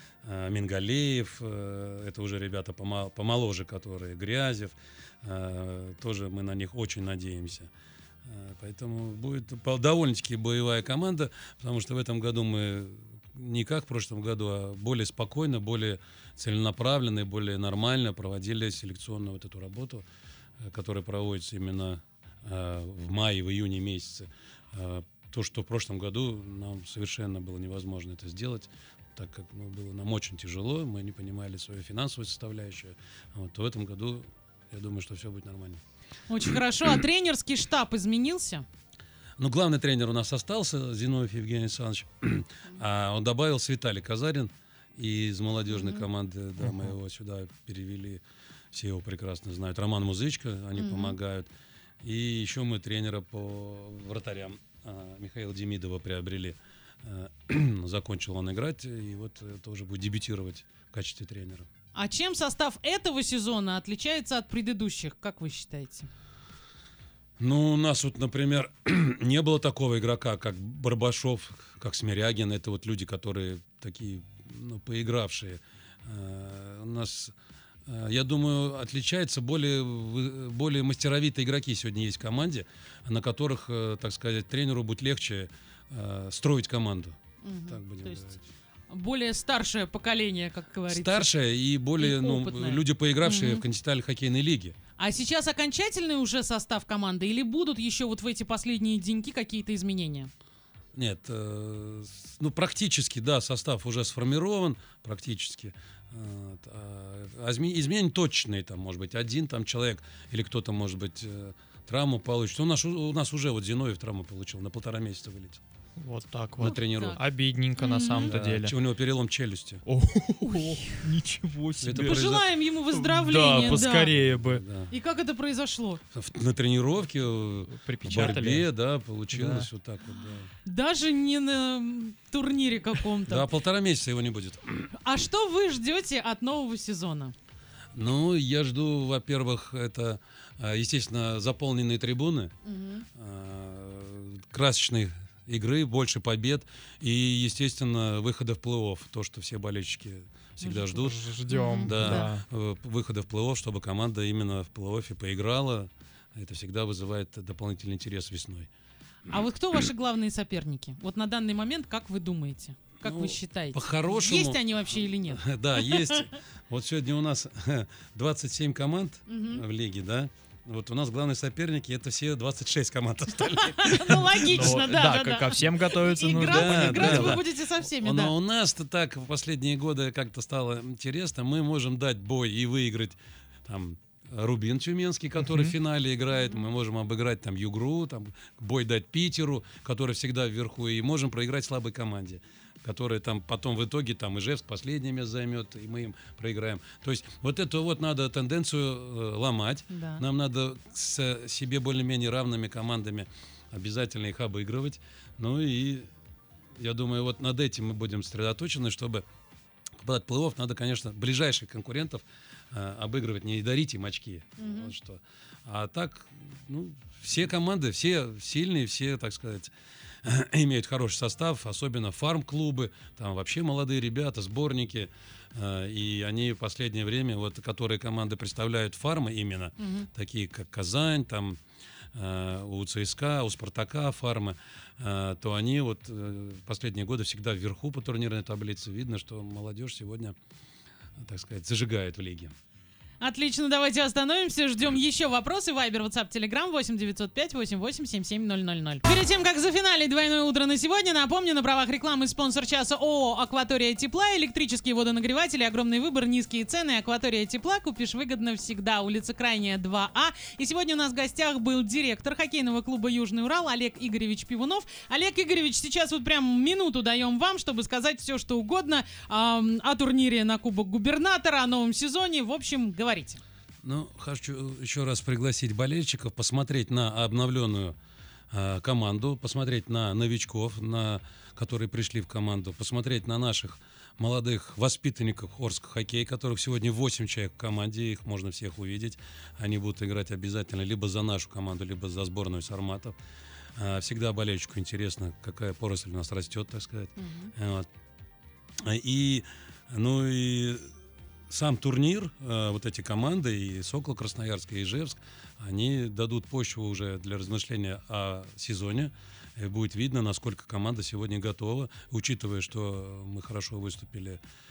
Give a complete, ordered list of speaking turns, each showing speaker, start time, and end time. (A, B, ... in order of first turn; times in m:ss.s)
0:00.2-0:07.7 A
0:08.2-0:20.1 A
0:20.6-0:35.8 A
0:36.3-0:38.6 B
0:39.4-0:48.2 A
0:45.7-0:46.1 B
0:48.7-0:51.5 A
0:50.8-0:51.2 B
0:52.0-1:01.7 A
1:02.0-1:06.1 B
1:07.4-1:17.4 A
1:17.9-1:28.4 A
1:27.4-1:28.4 B
1:28.9-1:31.3 B
1:30.9-1:34.8 A
1:32.0-1:33.6 B
1:35.0-1:40.3 B
1:41.0-1:55.6 A
1:56.0-1:58.7 C
1:56.6-1:57.2 A
1:56.6-1:57.2 B
1:57.8-1:58.4 B
1:58.2-1:59.8 A
1:59.9-2:02.4 C
2:00.4-2:00.9 B
2:01.8-2:02.4 A
2:02.0-2:04.1 B
2:02.9-2:04.6 C
2:03.6-2:04.9 A
2:04.9-2:06.0 B
2:06.1-2:10.5 A
2:07.7-2:08.7 C
2:09.3-2:09.7 C
2:10.6-2:13.5 B
2:13.3-2:14.9 A
2:15.0-2:17.3 B
2:17.9-2:22.5 A
2:22.6-2:23.1 B
2:23.2-2:31.2 A
2:30.6-2:32.3 B
2:31.1-2:32.4 C
2:31.8-2:38.7 A
2:39.3-2:46.2 B
2:43.0-2:54.8 A
2:49.3-2:49.6 B
2:53.5-2:58.3 B
2:54.5-2:57.4 C
2:56.3-3:26.1 A
3:05.4-3:05.7 C
3:19.9-3:20.2 B
3:26.8-3:29.2 A
3:30.0-3:39.7 A
3:34.6-3:34.9 B
3:40.2-3:51.6 A
3:49.8-3:50.1 B
3:52.1-4:00.4 A
4:01.2-4:02.5 A
4:03.2-4:33.4 B
4:33.8-4:38.0 A
4:38.5-4:53.2 A
4:53.8-4:57.9 A
4:57.2-4:57.5 B
4:58.8-5:00.9 A
5:01.5-5:14.4 A